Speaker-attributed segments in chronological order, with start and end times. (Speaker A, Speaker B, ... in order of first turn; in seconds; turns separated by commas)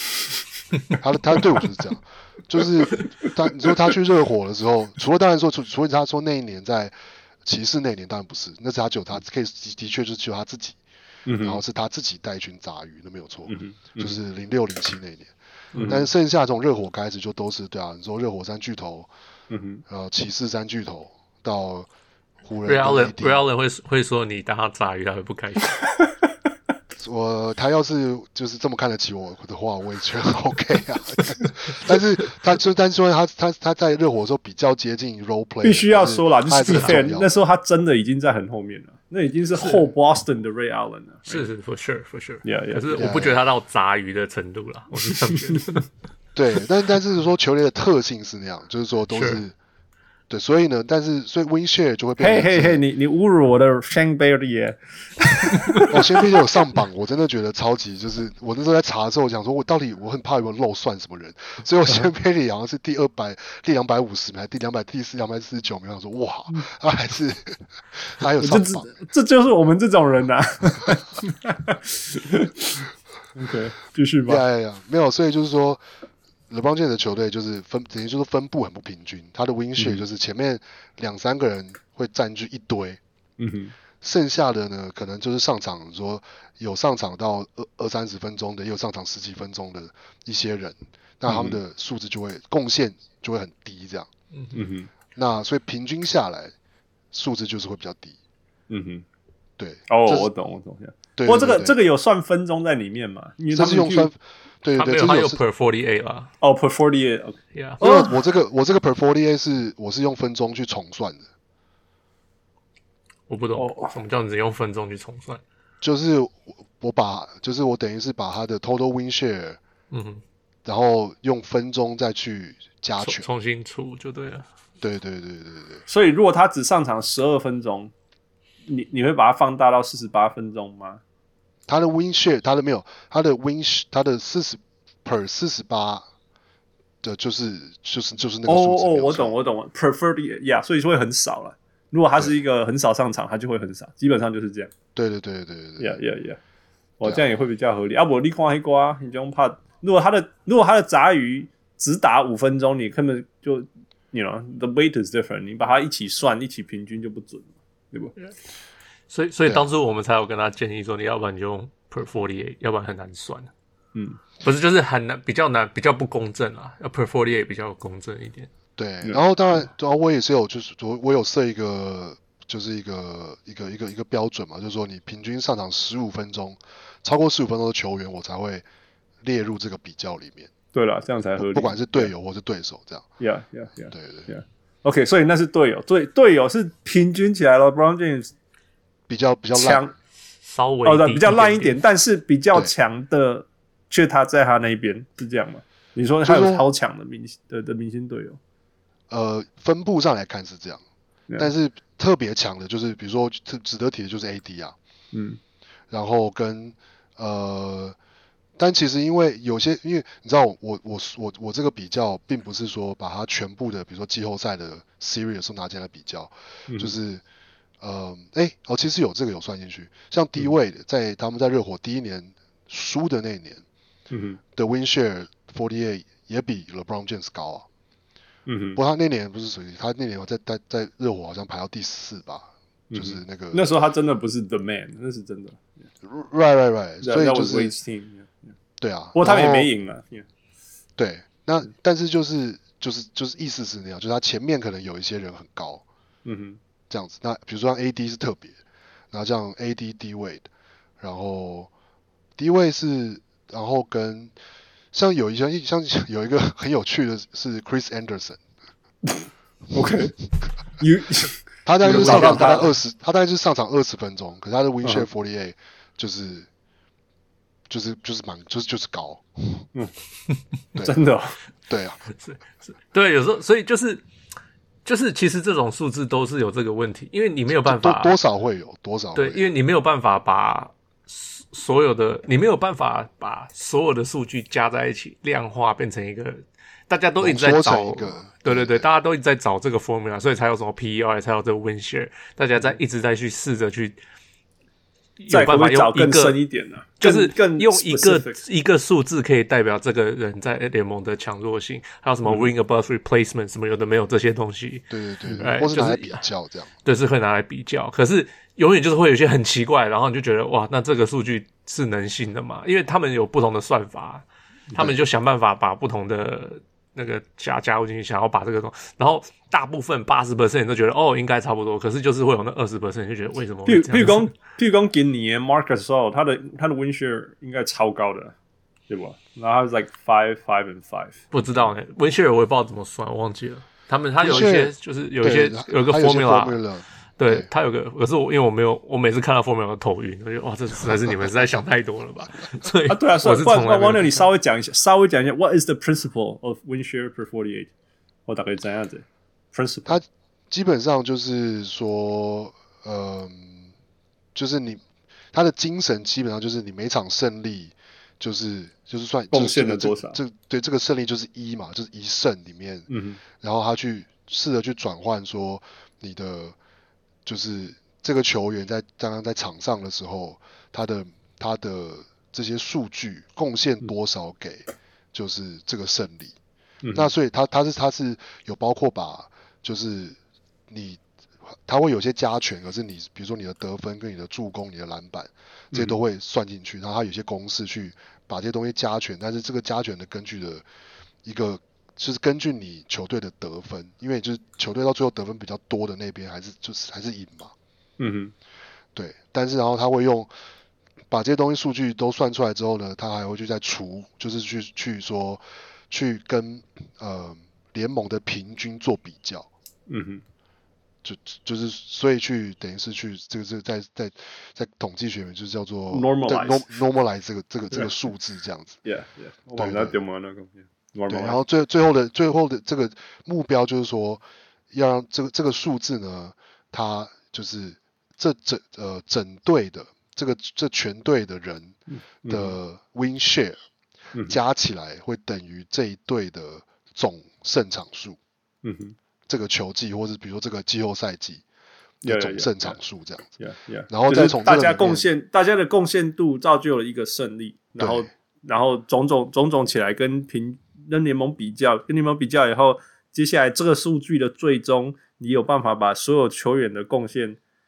Speaker A: 0.9-10.8, Speaker B: 11.2-11.6, Speaker A: 11.4-19.1, Speaker B: 13.5-14.2, Speaker B: 15.7-16.1, Speaker B: 19.5-19.8, Speaker A: 19.9-21.9, Speaker A: 22.4-23.4, Speaker C: 22.6-25.8, Speaker A: 27.0-37.3, Speaker B: 35.6-41.5, Speaker C: 41.3-45.8, Speaker B: 42.4-43.0, Speaker A: 42.9-43.4, Speaker A: 46.3-49.5, Speaker C: 49.1-49.4, Speaker A: 50.3-52.8, Speaker B: 52.2-56.2, Speaker A: 55.9-68.9, Speaker B: 68.4-74.4, Speaker A: 74.2-75.8, Speaker A: 76.5-83.0, Speaker B: 79.8-80.0, Speaker B: 83.4-83.7, Speaker A: 84.0-94.1, Speaker B: 91.3-91.6, Speaker B: 94.5-94.9, Speaker A: 95.2-96.5, Speaker A: 97.1-98.2, Speaker B: 98.7-99.0, Speaker A: 99.6-100.3, Speaker B: 99.9-104.1, Speaker A: 101.2-101.8, Speaker A: 103.5-105.4, Speaker C: 104.8-106.3, Speaker B: 106.4-108.1, Speaker C: 107.5-107.8, Speaker A: 107.8-111.3, Speaker C: 113.3-115.4, Speaker B: 113.5-113.9, Speaker A: 115.8-119.6, Speaker C: 119.9-120.2, Speaker A: 120.6-123.3, Speaker C: 123.0-124.5, Speaker A: 124.8-125.8, Speaker B: 125.9-127.9, Speaker B: 128.7-131.0, Speaker A: 131.7-136.1, Speaker A: 137.0-139.3, Speaker B: 138.4-144.7, Speaker A: 144.9-146.0, Speaker B: 145.8-146.4, Speaker B: 147.0-158.1, Speaker C: 159.1-163.5, Speaker B: 163.9-164.2, Speaker C: 164.4-168.5, Speaker A: 168.8-178.6, Speaker A: 179.2-180.5, Speaker B: 180.7-182.1, Speaker A: 181.4-183.1, Speaker B: 183.2-188.3, Speaker A: 183.9-184.3, Speaker A: 189.1-189.8, Speaker B: 189.5-189.9, Speaker C: 190.4-191.8, Speaker B: 190.8-198.4, Speaker A: 196.2-196.7, Speaker A: 199.1-200.8, Speaker A: 201.4-204.8, Speaker B: 205.1-205.4, Speaker A: 205.9-207.9, Speaker A: 208.6-217.2, Speaker B: 216.7-216.9, Speaker A: 217.8-223.6, Speaker B: 224.1-224.4, Speaker A: 224.5-227.7, Speaker B: 228.4-228.8, Speaker A: 228.8-233.7, Speaker B: 232.9-235.8, Speaker A: 236.0-237.7, Speaker B: 237.0-238.5, Speaker A: 238.8-239.7, Speaker B: 239.1-240.3, Speaker A: 241.0-245.8, Speaker B: 246.2-246.6, Speaker A: 246.9-248.6, Speaker A: 249.1-250.5, Speaker A: 251.0-251.7, Speaker A: 252.4-254.3, Speaker A: 254.9-258.4, Speaker B: 259.1-260.2, Speaker B: 260.8-262.7, Speaker A: 261.6-266.5, Speaker C: 262.0-262.4, Speaker A: 267.7-269.6, Speaker B: 270.8-271.4, Speaker A: 271.7-272.0, Speaker C: 272.1-274.0, Speaker C: 274.8-278.1, Speaker A: 277.5-279.5, Speaker C: 279.1-294.0, Speaker A: 287.2-288.9, Speaker C: 295.2-296.4, Speaker B: 295.3-298.4, Speaker C: 297.0-304.9, Speaker B: 302.2-302.5, Speaker A: 304.9-306.7, Speaker C: 305.4-306.2, Speaker C: 306.8-324.3, Speaker B: 323.6-328.3, Speaker B: 328.9-331.2, Speaker C: 331.3-336.6, Speaker A: 334.2-337.5, Speaker C: 337.2-344.3, Speaker B: 342.9-347.7, Speaker B: 348.3-350.0, Speaker A: 349.9-353.7, Speaker A: 354.3-366.6, Speaker B: 359.3-360.2, Speaker B: 362.9-363.2, Speaker A: 367.2-376.3, Speaker B: 376.8-377.1, Speaker A: 376.9-380.2, Speaker A: 380.7-381.0, Speaker A: 381.6-390.6, Speaker A: 391.2-397.5, Speaker B: 398.0-398.3, Speaker A: 398.9-400.3, Speaker A: 401.1-409.5, Speaker B: 409.9-410.2, Speaker A: 411.0-418.8, Speaker B: 415.9-416.7, Speaker B: 418.8-421.4, Speaker A: 419.6-420.0, Speaker A: 421.1-433.6, Speaker B: 431.9-432.6, Speaker A: 434.3-438.2, Speaker B: 438.6-438.9, Speaker A: 439.3-441.4, Speaker B: 442.0-442.8, Speaker A: 442.0-443.3, Speaker B: 443.4-457.4, Speaker A: 443.9-445.1, Speaker A: 447.8-448.1